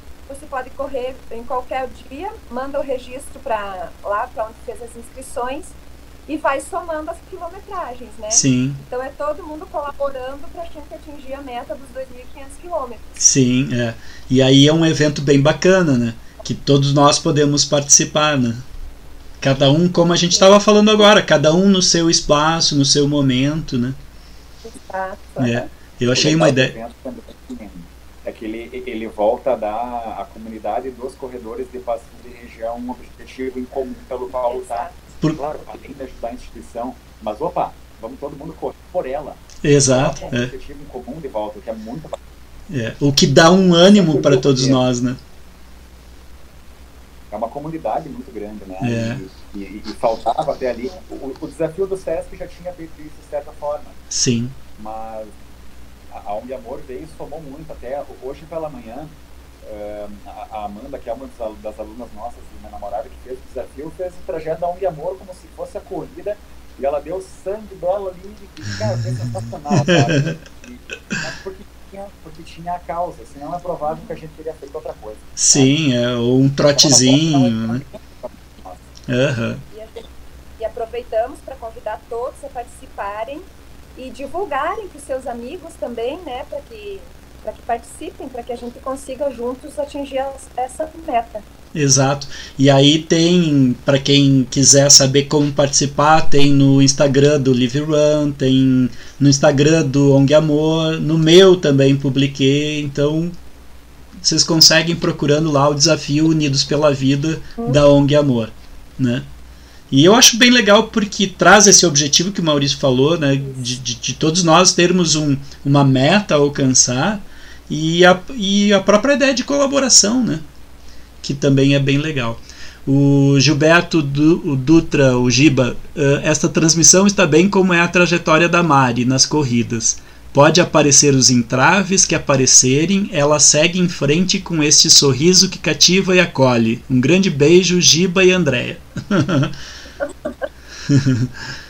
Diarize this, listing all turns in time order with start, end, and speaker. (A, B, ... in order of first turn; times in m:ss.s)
0:00.3-0:05.8 A
0:06.3-0:13.2 A
0:08.3-0:08.8 B
0:13.2-0:18.6 B
0:19.4-0:24.0 B
0:24.7-0:25.7 A
0:25.4-0:26.7 B
0:26.1-0:42.2 C
0:34.5-0:35.0 A
0:39.6-0:40.5 B
0:42.7-0:45.2 B
0:43.8-0:44.8 C
0:47.3-0:54.0 C
0:48.8-0:49.2 B
0:54.1-0:54.6 B
0:54.8-0:55.3 C
0:56.1-1:15.7 C
1:09.8-1:10.4 B
1:15.4-1:17.8 B
1:16.8-1:18.9 C
1:19.1-1:19.6 B
1:19.7-1:20.1 A
1:20.6-1:31.4 A
1:31.7-1:43.3 B
1:44.2-1:49.3 B
1:49.9-2:00.4 B
2:01.2-2:19.6 B
2:20.9-2:21.3 B